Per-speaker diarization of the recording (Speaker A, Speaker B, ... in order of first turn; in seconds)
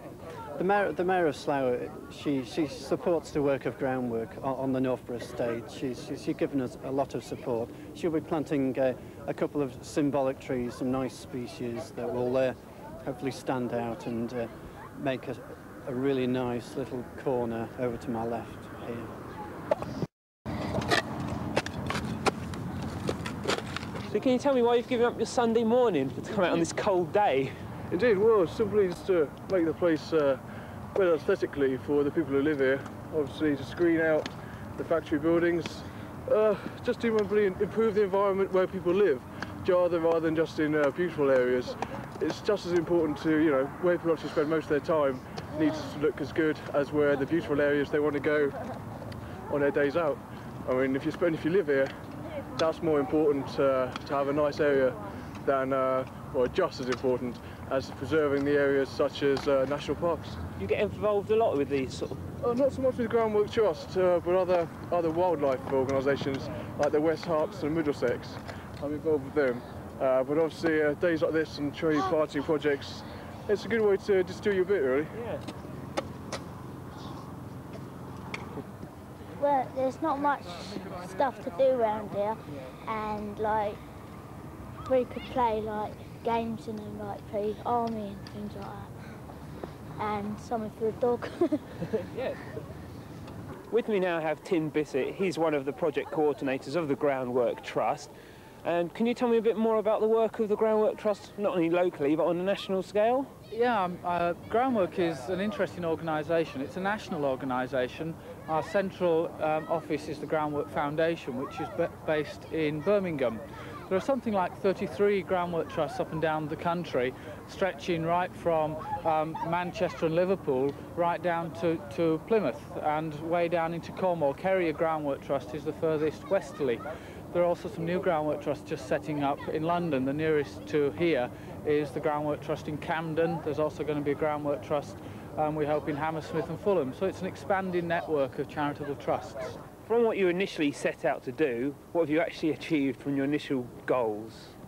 Speaker A: 0.6-19.1
Speaker B: 24.1-27.5, 60.6-62.2, 75.2-75.4, 92.1-92.4, 93.7-103.3, 139.8-144.5
Speaker C: 27.9-30.4, 30.9-48.6, 49.5-51.9, 52.5-60.4, 62.4-75.2
Speaker D: 79.4-83.8, 84.9-88.9, 90.0-91.6
Speaker E: 103.5-139.6